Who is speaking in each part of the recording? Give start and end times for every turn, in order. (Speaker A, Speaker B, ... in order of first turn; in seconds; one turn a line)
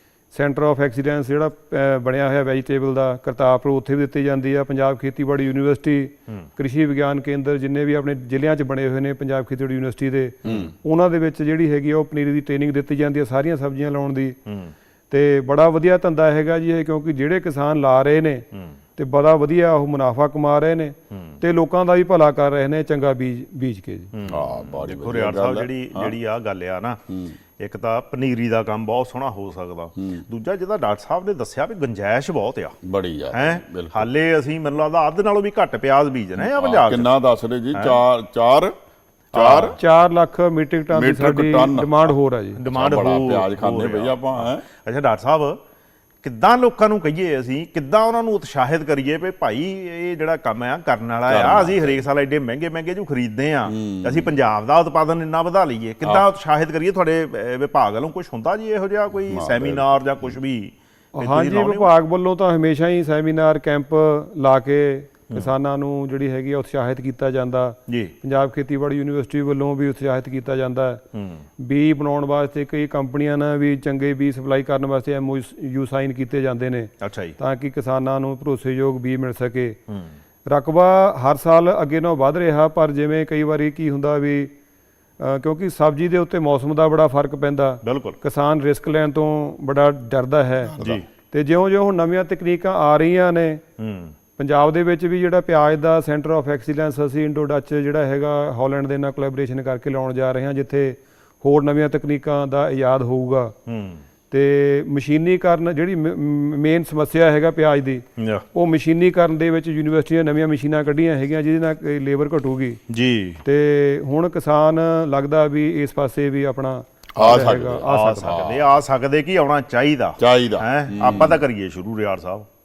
Speaker A: 0.3-14.4
Speaker B: 10.4-10.7
Speaker C: 14.4-14.7
Speaker A: 15.1-24.1
Speaker C: 21.1-21.4
Speaker C: 24.1-27.0
Speaker B: 24.2-26.1
Speaker B: 27.1-27.4
Speaker C: 27.6-32.8
Speaker B: 30.0-30.2
Speaker B: 32.8-34.1
Speaker C: 33.3-37.1
Speaker B: 36.4-38.7
Speaker B: 39.3-39.8
Speaker C: 39.3-39.8
Speaker A: 39.8-42.6
Speaker B: 40.9-42.1
Speaker C: 42.6-45.6
Speaker B: 42.7-44.6
Speaker C: 46.2-61.9
Speaker B: 51.3-52.0
Speaker B: 53.7-54.4
Speaker B: 59.3-60.3
Speaker A: 61.2-71.0
Speaker C: 67.9-68.1
Speaker C: 71.1-71.5
Speaker A: 71.6-79.8
Speaker C: 77.0-77.4
Speaker C: 79.9-80.1
Speaker A: 80.5-84.5
Speaker A: 85.2-90.8
Speaker C: 87.8-88.2
Speaker B: 90.7-91.0
Speaker C: 90.8-91.1
Speaker A: 91.3-93.6
Speaker C: 93.8-94.1
Speaker A: 94.4-103.5
Speaker C: 103.7-104.0
Speaker A: 104.3-112.8
Speaker C: 108.2-108.4
Speaker C: 112.9-113.4
Speaker A: 113.4-118.4
Speaker B: 117.1-118.8
Speaker C: 117.9-122.5
Speaker B: 120.2-121.4